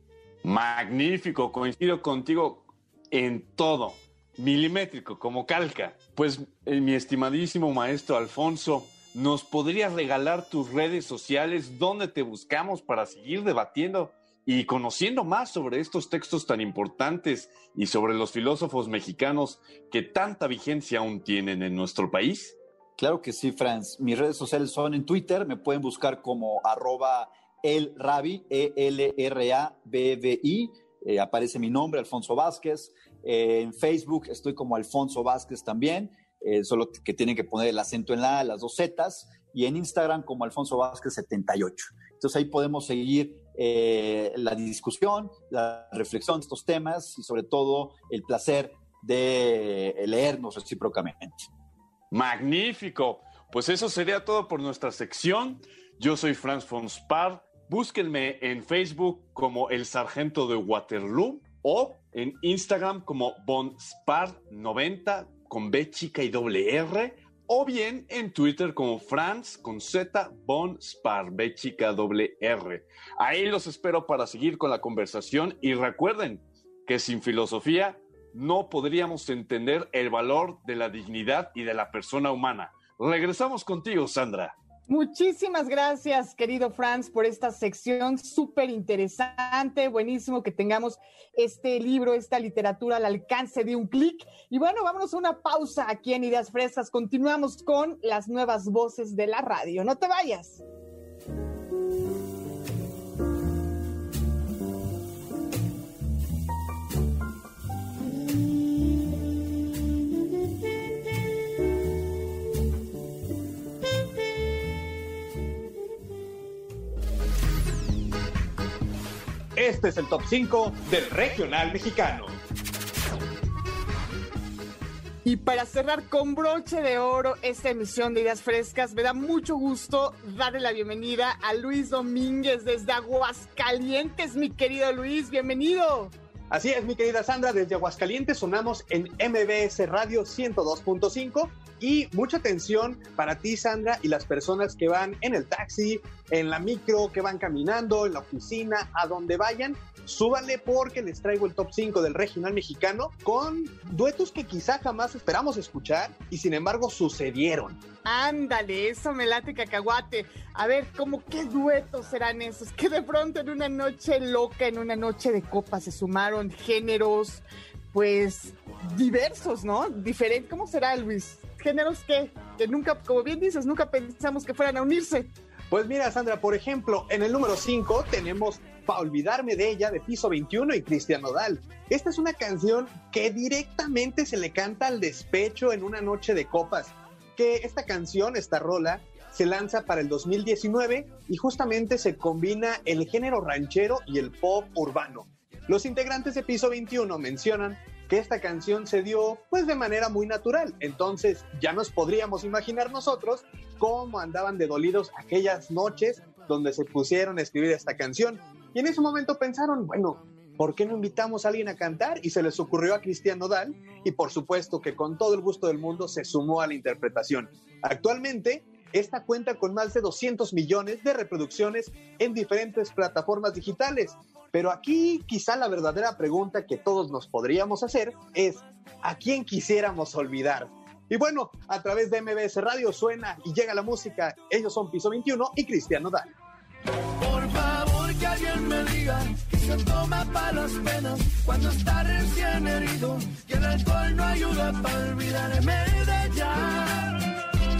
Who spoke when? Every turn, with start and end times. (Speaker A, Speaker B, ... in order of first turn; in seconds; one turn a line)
Speaker A: 0.4-22.6
Speaker B: 23.0-51.5
Speaker A: 52.1-84.5
Speaker C: 84.9-100.6
Speaker D: 119.5-122.3
Speaker C: 125.2-136.1
Speaker D: 136.5-157.8
Speaker C: 158.0-175.3
Speaker D: 175.7-236.3
Speaker E: 237.2-247.2